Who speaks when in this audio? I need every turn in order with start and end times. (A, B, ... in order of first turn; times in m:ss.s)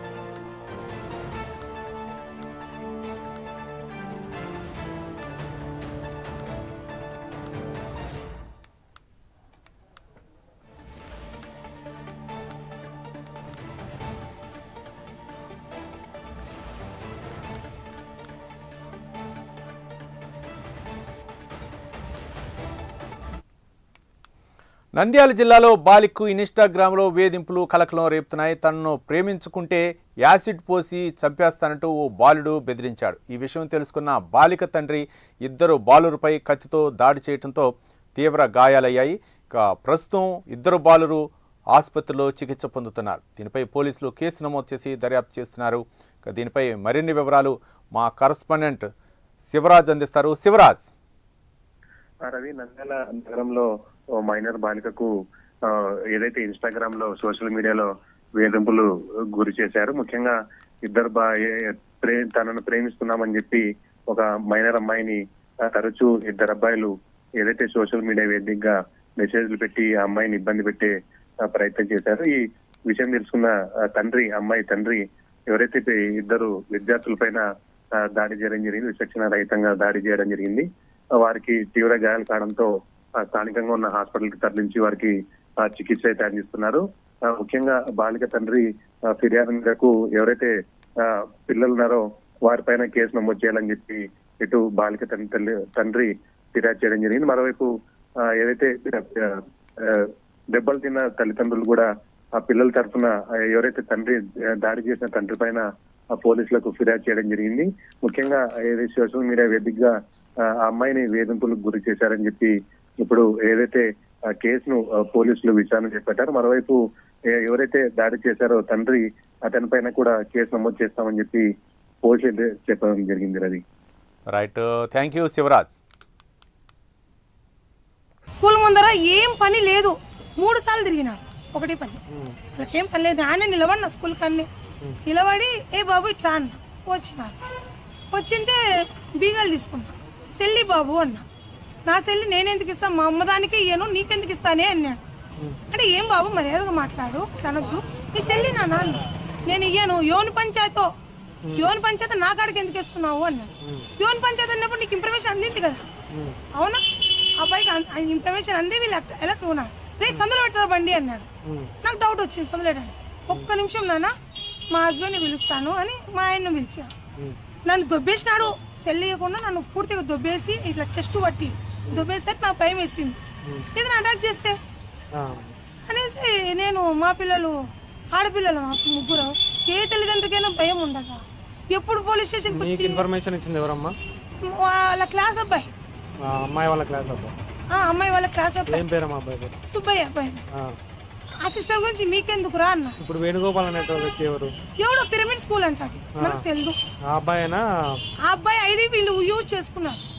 0:25.0-0:48.9 A
0:49.5-0:50.9 A
0:52.2-0:53.7 B
0:54.2-0:55.1 B
0:55.7-1:10.9 B
1:11.4-1:17.4 B
1:18.0-1:20.7 B
1:21.2-1:37.7 B
1:38.2-1:49.9 B
1:50.4-1:53.9 B
1:54.4-1:56.8 B
1:57.3-2:01.5 B
2:02.0-2:03.6 B
2:04.3-2:05.8 A
2:08.3-2:12.0 C
2:12.1-2:12.4 D
2:12.6-2:14.5 C
2:15.1-2:17.4 C
2:18.1-2:18.6 C
2:19.2-2:21.3 C
2:21.9-2:25.0 C
2:25.7-2:30.9 C
2:31.4-2:31.7 D
2:31.6-2:35.9 C
2:33.6-2:33.9 D
2:36.1-2:36.4 D
2:36.6-2:36.8 C
2:37.4-2:41.3 C
2:41.4-2:41.7 D
2:41.8-2:44.1 C
2:44.7-2:46.9 C
2:47.7-2:53.2 C
2:53.8-2:54.6 C
2:55.2-2:55.6 D
2:55.9-2:57.6 C
2:58.1-3:01.2 C
3:01.7-3:03.0 C
3:02.5-3:04.0 D
3:04.4-3:05.7 C
3:06.2-3:07.4 D
3:07.7-3:08.8 C
3:08.7-3:09.6 D
3:09.7-3:10.4 C
3:11.4-3:13.0 C
3:13.0-3:14.6 D
3:14.8-3:16.8 C
3:16.2-3:16.4 D
3:17.1-3:18.0 D
3:18.2-3:20.0 C